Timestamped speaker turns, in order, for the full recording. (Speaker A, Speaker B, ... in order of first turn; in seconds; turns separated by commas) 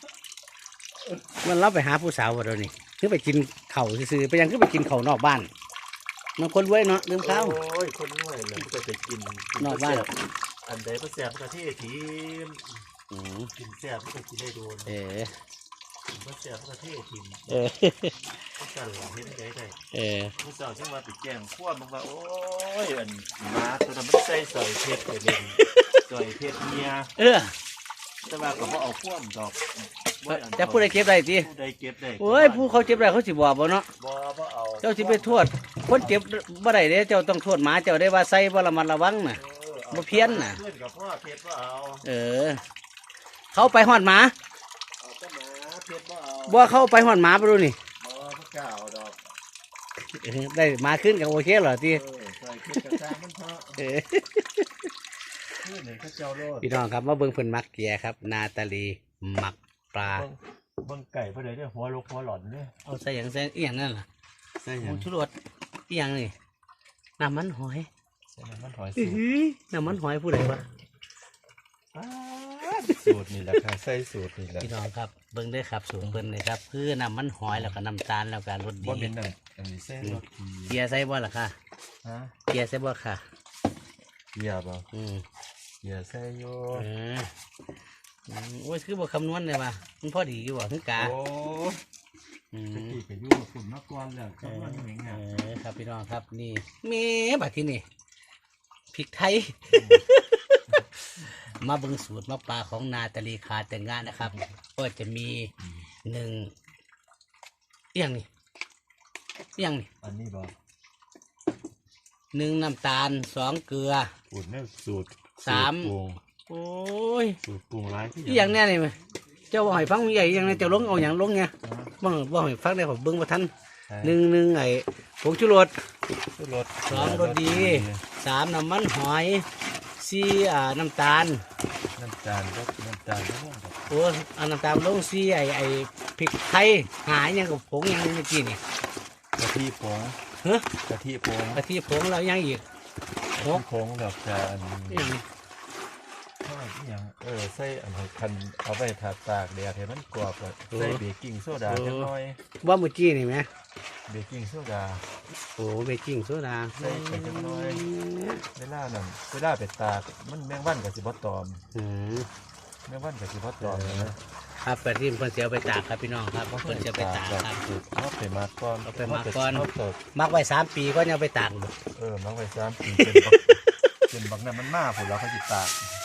Speaker A: 1.4-5.5, Speaker A: 6.4-7.6, Speaker B: 7.2-12.7, Speaker A: 9.6-10.1, Speaker A: 13.1-13.5, Speaker B: 13.6-15.0, Speaker A: 14.9-15.3, Speaker B: 16.1-17.7, Speaker A: 17.5-18.1, Speaker B: 18.6-19.8, Speaker A: 19.9-20.3, Speaker B: 20.4-27.1, Speaker A: 27.2-27.6, Speaker B: 28.2-33.2, Speaker A: 30.3-31.5, Speaker A: 32.2-33.9, Speaker B: 34.0-36.2, Speaker A: 34.8-40.6, Speaker B: 39.3-42.0, Speaker A: 42.0-42.6, Speaker A: 43.5-44.3, Speaker B: 43.6-43.9, Speaker B: 45.0-46.6, Speaker A: 46.5-47.8, Speaker B: 48.0-49.2, Speaker A: 50.1-52.0, Speaker B: 51.9-54.0, Speaker A: 53.8-54.7, Speaker B: 55.6-56.7, Speaker A: 56.6-60.3, Speaker B: 60.0-62.7, Speaker A: 62.9-64.1, Speaker B: 64.6-65.1, Speaker A: 64.8-65.3, Speaker A: 65.9-66.3, Speaker A: 67.2-67.9, Speaker B: 68.3-69.2, Speaker A: 69.0-70.7, Speaker B: 71.9-74.7, Speaker A: 74.6-79.1, Speaker B: 77.5-77.8, Speaker B: 78.8-80.8, Speaker A: 80.0-81.6, Speaker B: 82.0-82.3, Speaker A: 82.5-83.2, Speaker B: 84.3-84.9, Speaker A: 84.9-85.2, Speaker B: 85.8-86.9, Speaker A: 86.7-87.3, Speaker A: 88.3-91.1, Speaker B: 91.0-91.8, Speaker A: 92.5-93.0, Speaker B: 92.7-95.2, Speaker A: 94.4-97.8, Speaker A: 98.9-100.6, Speaker B: 99.7-100.0, Speaker A: 101.2-105.5, Speaker B: 105.6-105.8, Speaker A: 106.1-106.5, Speaker A: 108.0-108.3, Speaker A: 109.6-109.9, Speaker B: 110.0-110.5, Speaker A: 112.3-114.1, Speaker B: 114.3-116.2, Speaker A: 115.4-115.9, Speaker A: 116.5-117.4, Speaker B: 117.4-118.6, Speaker A: 118.3-119.0, Speaker A: 119.5-123.5, Speaker B: 120.5-120.9, Speaker B: 121.6-121.9, Speaker B: 123.9-124.2, Speaker A: 124.0-125.7, Speaker B: 126.2-128.0, Speaker A: 126.9-129.5, Speaker A: 130.0-131.4, Speaker B: 132.0-133.9, Speaker A: 133.9-138.6, Speaker B: 139.4-140.2, Speaker A: 140.4-140.7, Speaker B: 140.9-141.6, Speaker A: 141.5-142.6, Speaker B: 143.4-145.2, Speaker A: 143.4-143.6, Speaker A: 144.9-145.2, Speaker B: 146.4-152.4, Speaker A: 150.7-151.0, Speaker A: 151.7-152.1, Speaker A: 152.6-153.5, Speaker B: 154.1-155.1, Speaker A: 155.6-158.4, Speaker B: 156.8-157.9, Speaker B: 158.6-161.6, Speaker A: 161.7-162.3, Speaker B: 162.9-164.2, Speaker A: 163.6-167.6, Speaker B: 166.5-170.0, Speaker A: 168.9-171.7, Speaker B: 171.9-175.8, Speaker A: 173.0-173.2